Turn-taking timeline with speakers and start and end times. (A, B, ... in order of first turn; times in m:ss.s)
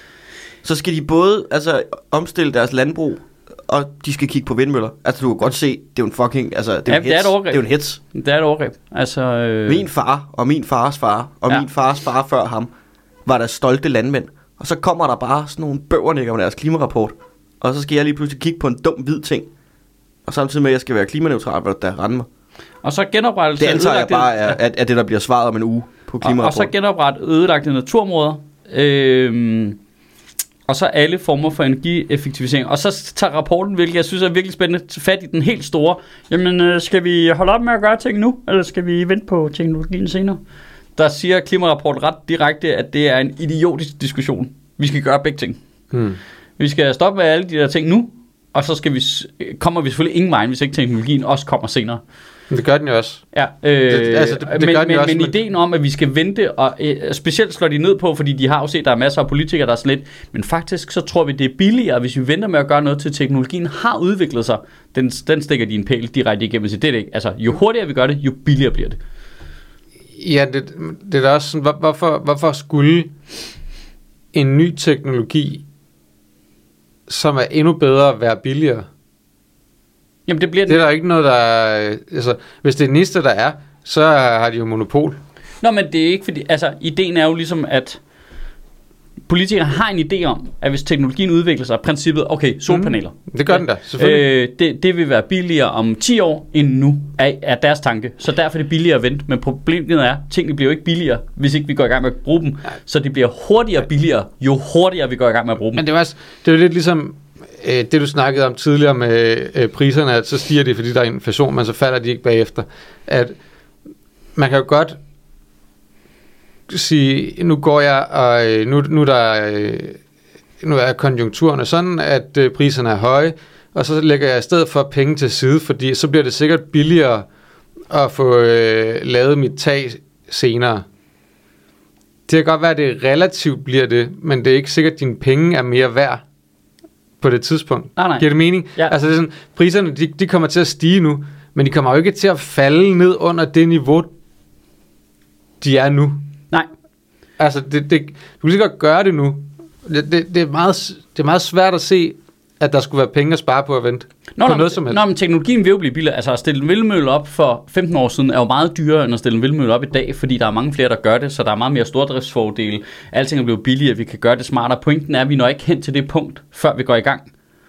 0:00.6-0:08.0 A
0:06.9-0:09.8 B
0:09.7-0:12.7 A
0:13.3-0:19.5 A
0:20.3-0:22.3 A
0:22.8-0:24.6 B
0:23.6-0:26.7 A
0:26.2-0:29.8 B
0:30.7-0:40.4 B
0:41.0-0:45.6 B
0:45.9-0:46.2 C
0:46.6-0:52.0 B
0:52.5-0:53.2 C
0:53.3-1:09.0 B
0:53.9-0:55.4 C
1:10.2-1:13.1 C
1:14.3-1:15.6 C
1:17.1-1:18.9 C
1:20.3-1:20.9 B
1:20.7-1:25.2 C
1:25.6-1:28.0 B
1:29.3-1:45.8 B
1:32.7-1:34.3 C
1:45.8-1:53.4 C
1:54.4-1:55.0 C
1:56.7-2:00.0 C
2:00.6-2:07.3 C
2:07.9-2:10.8 C
2:12.3-2:16.2 C
2:17.2-2:24.1 C
2:18.0-2:18.9 B
2:25.6-2:26.2 C
2:27.4-2:35.0 C
2:34.4-2:47.3 B